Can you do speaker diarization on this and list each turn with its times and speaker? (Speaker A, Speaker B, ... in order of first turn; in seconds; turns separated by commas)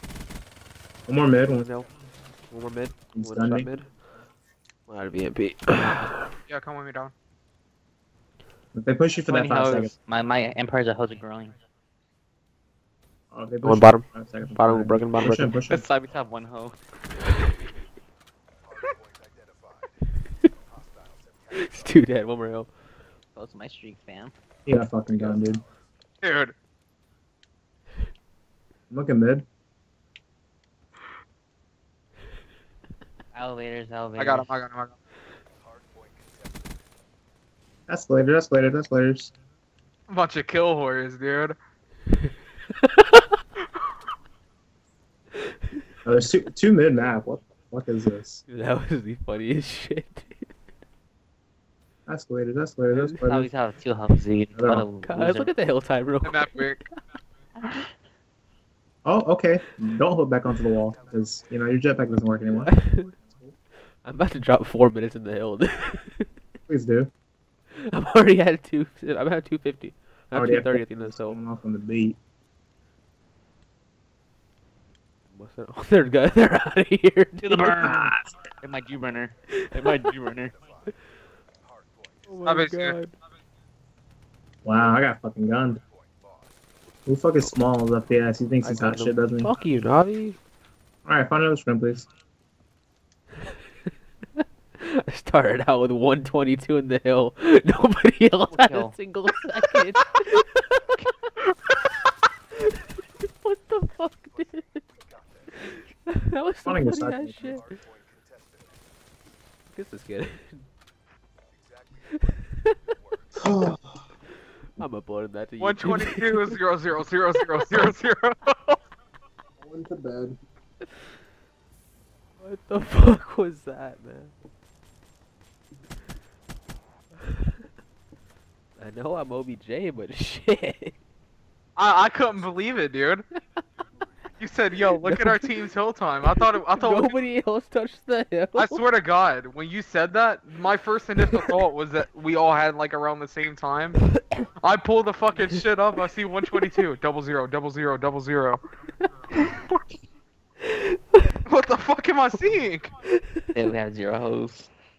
Speaker A: 1.1-1.7, Speaker B: 1.6-1.9, Speaker B: 2.5-3.9, Speaker A: 3.1-3.7, Speaker B: 4.9-6.3, Speaker C: 6.5-7.1, Speaker A: 8.7-9.9, Speaker D: 9.2-11.6, Speaker A: 13.3-15.8, Speaker B: 13.6-15.6, Speaker D: 15.7-16.8, Speaker B: 21.5-22.7, Speaker D: 23.4-24.3, Speaker A: 24.6-25.6, Speaker C: 26.2-26.5, Speaker A: 28.9-29.4, Speaker D: 33.3-34.6, Speaker C: 34.2-34.9, Speaker A: 37.9-39.3, Speaker C: 40.1-41.6, Speaker B: 42.9-43.3, Speaker A: 46.0-48.4, Speaker B: 48.5-50.5, Speaker A: 52.1-53.5, Speaker B: 52.9-53.2, Speaker D: 53.2-55.5, Speaker A: 54.5-54.9, Speaker B: 55.0-56.9, Speaker C: 56.3-56.8, Speaker D: 57.6-57.9, Speaker A: 59.0-62.8, Speaker B: 62.6-63.1, Speaker B: 64.0-66.3, Speaker A: 66.7-67.1, Speaker B: 67.8-71.4, Speaker A: 70.3-72.2, Speaker B: 75.3-78.0, Speaker D: 77.4-78.1, Speaker A: 77.8-78.3, Speaker D: 78.6-80.5, Speaker B: 79.5-79.9, Speaker B: 82.2-83.2, Speaker C: 82.4-83.0, Speaker A: 84.6-85.8, Speaker A: 87.0-89.5, Speaker D: 88.6-89.1, Speaker B: 89.3-90.4, Speaker A: 91.0-92.1, Speaker B: 94.4-101.1, Speaker D: 98.5-99.0, Speaker B: 103.2-104.8, Speaker B: 105.6-107.6, Speaker A: 106.6-107.5, Speaker B: 109.7-110.6, Speaker B: 112.4-112.7, Speaker A: 113.4-114.0, Speaker B: 114.8-116.5, Speaker C: 115.6-118.8, Speaker A: 119.6-120.4, Speaker B: 122.4-124.3, Speaker B: 127.2-127.5, Speaker B: 128.8-130.9, Speaker C: 131.8-133.2, Speaker C: 134.4-137.2, Speaker B: 135.0-135.5, Speaker B: 136.3-138.8, Speaker C: 138.5-144.1, Speaker B: 144.1-144.4, Speaker C: 144.6-148.6, Speaker B: 150.7-151.2, Speaker C: 151.4-152.9, Speaker D: 153.5-154.7